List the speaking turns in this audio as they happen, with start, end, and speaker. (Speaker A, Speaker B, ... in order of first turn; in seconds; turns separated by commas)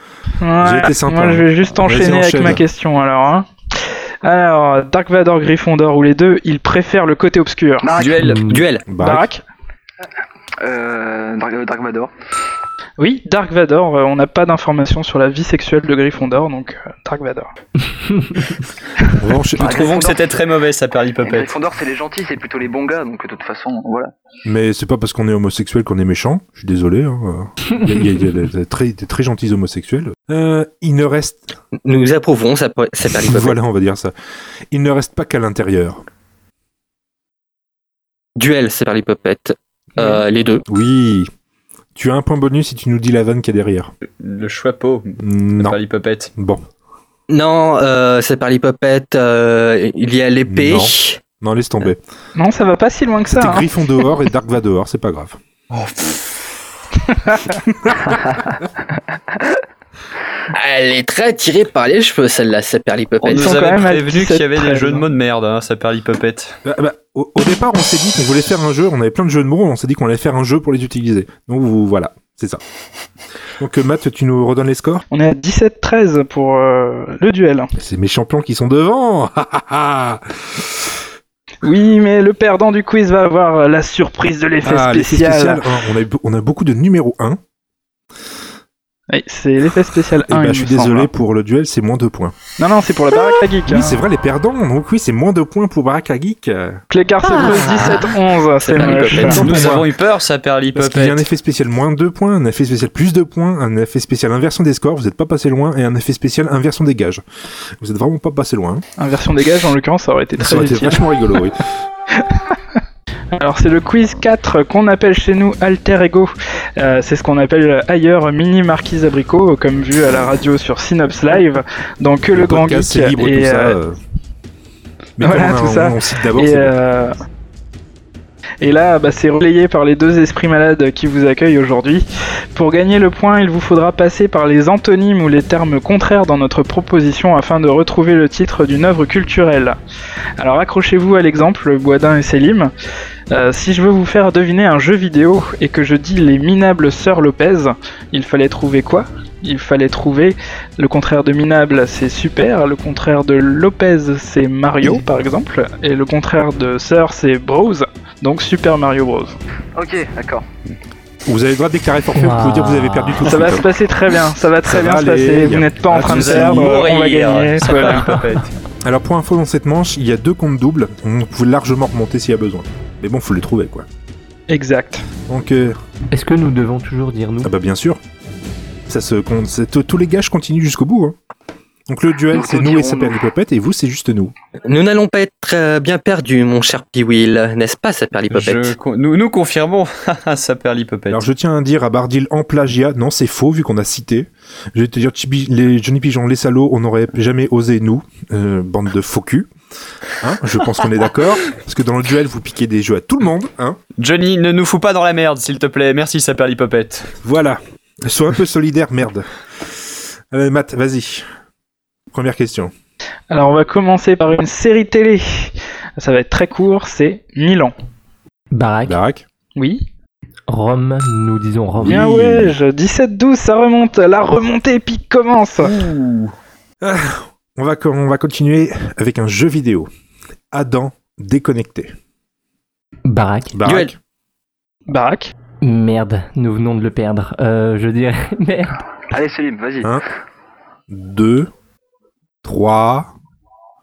Speaker A: 0.4-7.9, Speaker B: 0.6-2.6, Speaker C: 7.8-8.4, Speaker D: 8.0-8.7, Speaker E: 8.2-8.6, Speaker F: 8.4-8.8, Speaker B: 8.9-9.3, Speaker A: 9.0-9.4, Speaker C: 10.6-12.1, Speaker A: 13.0-17.5, Speaker E: 17.9-18.6, Speaker B: 19.2-19.9, Speaker C: 19.6-20.4, Speaker D: 19.6-21.6, Speaker C: 21.2-24.1, Speaker B: 24.4-31.5, Speaker F: 31.9-33.6, Speaker B: 33.2-34.1, Speaker B: 34.7-36.0, Speaker F: 38.4-40.6, Speaker B: 40.7-41.3, Speaker B: 42.0-43.9, Speaker D: 44.2-46.3, Speaker B: 45.2-45.8, Speaker B: 46.4-46.6, Speaker F: 47.3-51.2, Speaker B: 50.5-52.0, Speaker A: 52.4-53.7, Speaker B: 53.3-55.4, Speaker D: 55.7-56.4, Speaker A: 57.1-57.5, Speaker B: 57.9-58.1, Speaker F: 60.5-63.6, Speaker D: 63.2-66.6, Speaker A: 63.3-65.1, Speaker B: 66.7-72.6, Speaker B: 73.6-75.0, Speaker A: 75.1-77.7, Speaker B: 77.8-81.0, Speaker A: 81.6-85.6, Speaker B: 84.6-87.4, Speaker A: 89.1-91.1, Speaker B: 90.3-92.4, Speaker A: 92.6-94.0, Speaker B: 93.7-96.8, Speaker A: 96.9-99.5, Speaker D: 98.7-101.2, Speaker F: 98.8-99.3, Speaker B: 99.2-99.9, Speaker B: 100.8-107.2, Speaker B: 107.8-108.8, Speaker A: 109.0-111.0, Speaker B: 110.4-111.6, Speaker A: 112.2-112.5, Speaker A: 113.3-123.8, Speaker B: 122.3-124.0, Speaker B: 125.2-126.7, Speaker A: 125.2-127.2, Speaker A: 128.6-139.8, Speaker A: 140.4-142.7, Speaker A: 143.3-159.4, Speaker C: 159.8-160.4, Speaker B: 161.3-163.7, Speaker E: 162.2-163.5, Speaker A: 163.2-168.2, Speaker B: 164.6-166.8, Speaker D: 166.0-168.6, Speaker B: 168.8-173.9, Speaker A: 174.5-175.1, Speaker B: 175.3-175.8, Speaker E: 176.1-177.5, Speaker B: 177.4-178.0, Speaker B: 178.9-181.2, Speaker B: 181.9-184.3, Speaker C: 182.3-183.2, Speaker F: 184.7-188.8, Speaker D: 188.3-191.3, Speaker B: 191.1-199.5, Speaker B: 200.2-203.8, Speaker D: 204.0-207.1, Speaker B: 207.2-211.3, Speaker B: 212.1-212.7, Speaker A: 213.3-217.7, Speaker E: 218.5-219.0, Speaker B: 218.8-219.2, Speaker A: 219.6-219.8, Speaker E: 220.5-222.1, Speaker B: 221.8-222.6, Speaker A: 221.8-225.8, Speaker D: 225.6-226.3, Speaker B: 226.8-229.9, Speaker B: 230.5-231.9, Speaker E: 233.1-233.6, Speaker B: 233.5-234.0, Speaker F: 233.6-233.9, Speaker A: 234.9-235.3, Speaker E: 235.6-238.8, Speaker C: 239.1-240.0, Speaker B: 240.9-241.5, Speaker B: 242.4-243.1